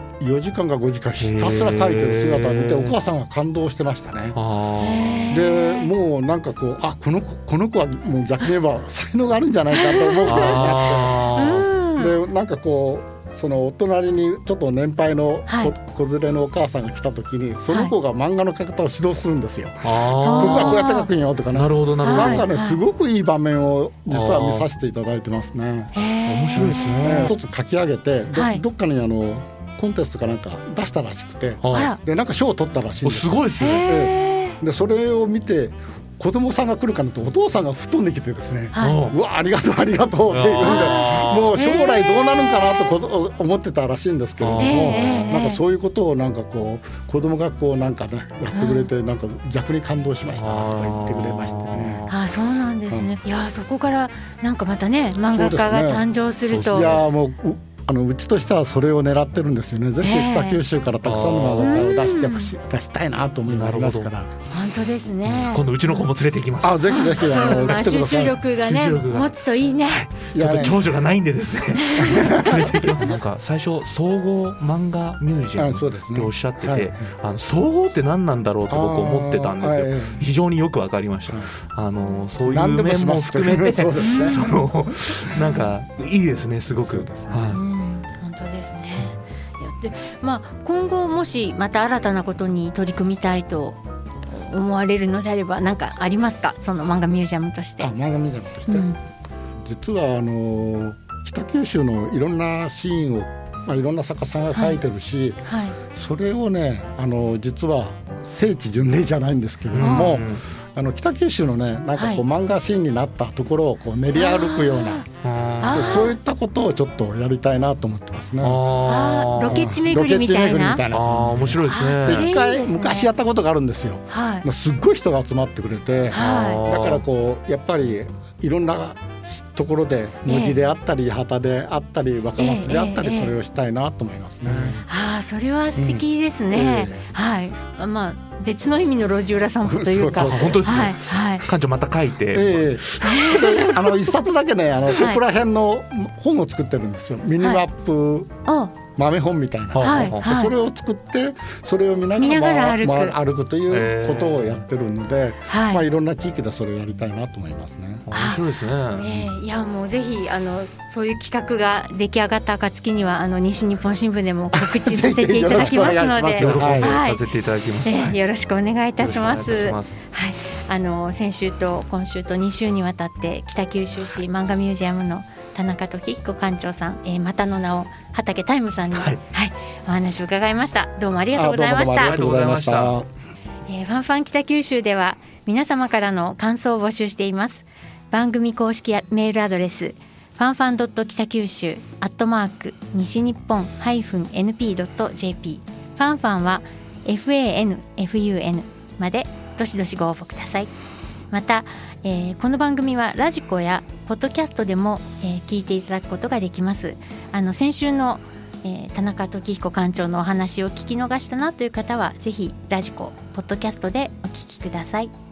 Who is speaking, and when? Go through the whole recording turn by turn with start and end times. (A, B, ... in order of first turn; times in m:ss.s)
0:00.2-0:04.4 A
0:01.2-0:02.9 B
0:04.3-0:05.3 B
0:04.8-0:05.9 C
0:05.3-0:11.3 A
0:09.8-0:12.1 C
0:10.2-0:11.7 B
0:12.0-0:25.9 A
0:15.5-0:15.7 C
0:19.8-0:20.8 B
0:20.2-0:21.1 C
0:21.5-0:22.4 B
0:22.0-0:22.8 C
0:24.1-0:24.6 B
0:25.9-0:27.3 C
0:26.2-0:27.3 B
0:26.6-0:52.1 A
0:28.3-0:28.6 C
0:31.6-0:31.9 B
0:31.7-0:32.0 C
0:33.0-0:33.9 B
0:33.6-0:34.6 C
0:38.7-0:39.0 C
0:38.8-0:39.1 B
0:40.3-0:41.5 B
0:40.6-0:42.8 C
0:44.4-0:45.3 B
0:44.6-0:45.6 C
0:48.5-0:48.9 C
0:50.3-0:52.1 B
0:52.1-0:56.9 C
0:55.2-0:56.1 A
0:56.4-0:57.0 B
0:56.6-1:04.3 A
1:00.0-1:00.6 C
1:01.0-1:01.9 B
1:01.6-1:02.5 C
1:03.5-1:04.1 B
1:04.5-1:06.0 C
1:05.2-1:07.8 B
1:06.6-1:08.4 A
1:07.0-1:10.0 C
1:08.5-1:27.6 B
1:10.3-1:10.9 A
1:11.8-1:12.7 C
1:12.0-1:13.1 A
1:15.6-1:17.1 A
1:18.7-1:20.2 A
1:21.3-1:21.5 A
1:22.5-1:24.4 A
1:24.0-1:24.6 C
1:26.8-1:27.5 A
1:27.5-1:37.9 C
1:37.8-1:38.9 A
1:38.7-1:39.0 C
1:39.6-1:55.1 A
1:44.5-1:44.8 C
1:45.4-1:45.8 C
1:49.7-1:50.4 B
1:49.8-1:50.1 C
1:52.0-1:52.2 C
1:54.1-1:55.1 C
1:55.2-1:56.0 B
1:55.6-1:56.2 C
1:55.7-1:58.6 A
1:58.4-1:59.7 B
1:58.8-2:00.8 C
1:59.4-2:14.8 A
2:00.9-2:02.3 B
2:01.6-2:03.1 C
2:04.1-2:04.4 C
2:06.1-2:06.6 C
2:06.1-2:07.0 B
2:10.2-2:10.6 C
2:12.4-2:13.3 C
2:14.4-2:14.8 B
2:14.8-2:21.4 C
2:15.8-2:17.0 A
2:19.6-2:20.9 A
2:20.1-2:22.9 B
2:22.3-2:28.3 A
2:23.0-2:24.0 C
2:24.9-2:25.2 C
2:28.4-2:28.7 C
2:28.9-2:38.1 A
2:29.7-2:30.2 B
2:29.8-2:30.5 C
2:32.2-2:33.2 C
2:33.7-2:34.6 B
2:35.5-2:35.8 C
2:38.0-2:39.1 B
2:38.1-2:38.4 C
2:39.0-2:47.2 C
2:44.5-2:47.0 A
2:45.5-2:48.2 B
2:47.8-3:02.2 C
2:49.0-2:49.9 B
2:58.9-2:59.2 B
3:01.3-3:03.1 A
3:01.9-3:02.9 B
3:03.7-3:20.7 C
3:21.3-3:35.1 C